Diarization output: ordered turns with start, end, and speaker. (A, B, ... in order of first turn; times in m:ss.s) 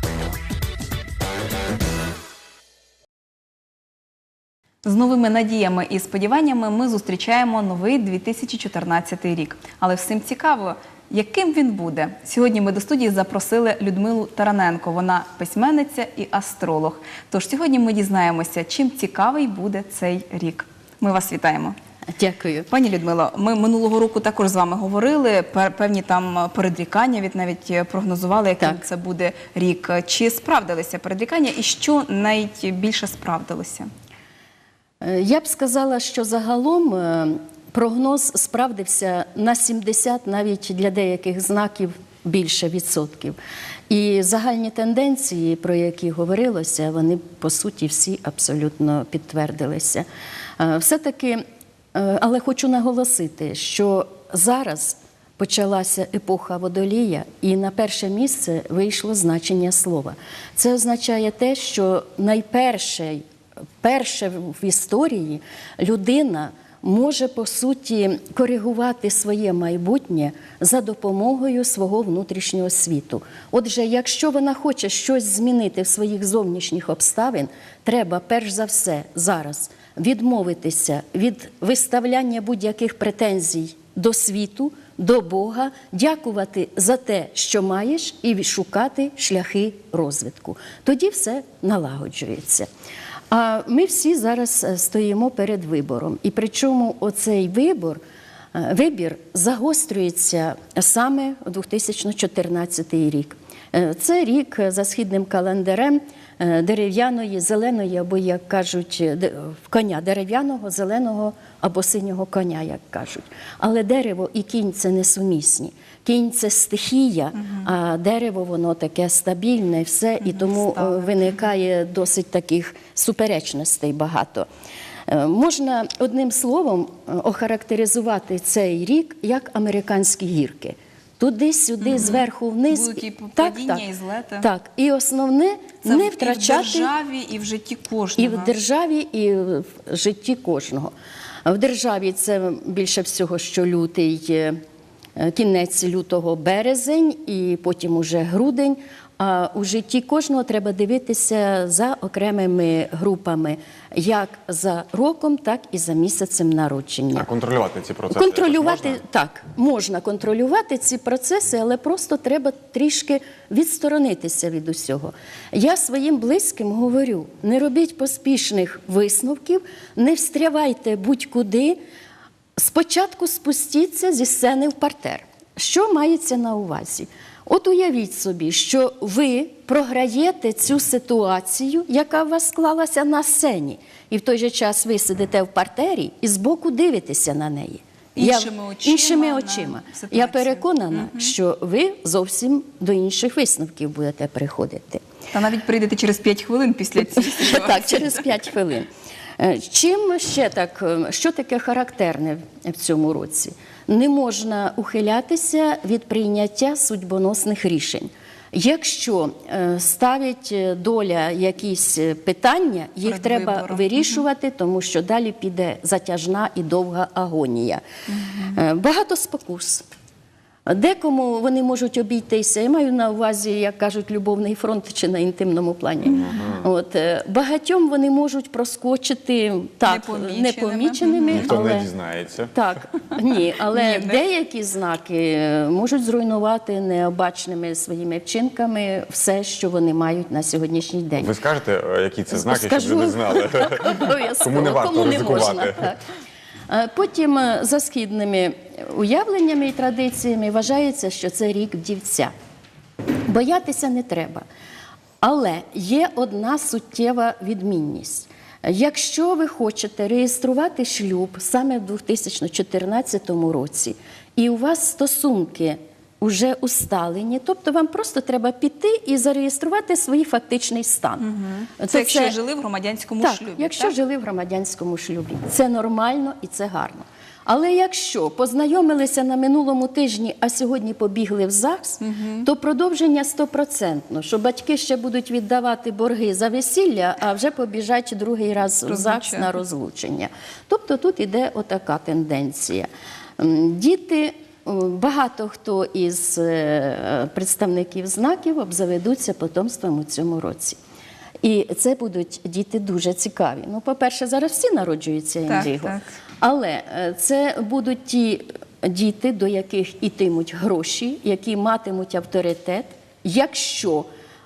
0:04.8-0:21.8 A
0:22.2-0:22.7 B
0:22.7-0:33.9 A
0:35.0-0:43.4 B
0:43.9-0:50.1 B
0:50.6-0:51.4 B
0:51.9-1:03.2 B
1:03.8-1:32.7 B
1:33.3-1:38.0 B
1:38.5-2:04.5 B
2:00.2-2:01.2 A
2:05.1-2:13.8 B
2:11.9-2:14.5 A
2:14.4-2:16.9 B
2:15.8-2:18.5 A
2:18.2-2:20.9 B
2:21.5-2:24.6 B
2:25.2-2:37.3 B
2:37.2-2:39.0 C
2:38.1-2:51.8 B
2:52.6-3:15.0 B
3:08.2-3:11.3 A
3:15.3-3:18.2 A
3:17.1-3:37.8 B
3:33.0-3:34.2 A
3:38.4-3:39.9 B
3:40.7-3:51.9 B
3:46.2-3:46.6 C
3:49.8-3:51.6 A
3:51.3-3:52.5 C
3:52.5-4:01.3 B
3:53.7-3:54.2 A
4:01.2-4:05.8 C
4:02.3-4:06.0 B
4:06.7-4:12.3 B
4:13.3-4:14.4 B
4:15.2-4:31.3 B
4:31.3-4:33.9 A
4:31.8-4:32.4 B
4:33.2-5:00.8 B
4:42.0-4:42.5 A
4:48.9-4:49.5 A
5:01.4-5:14.1 B
5:05.5-5:06.1 A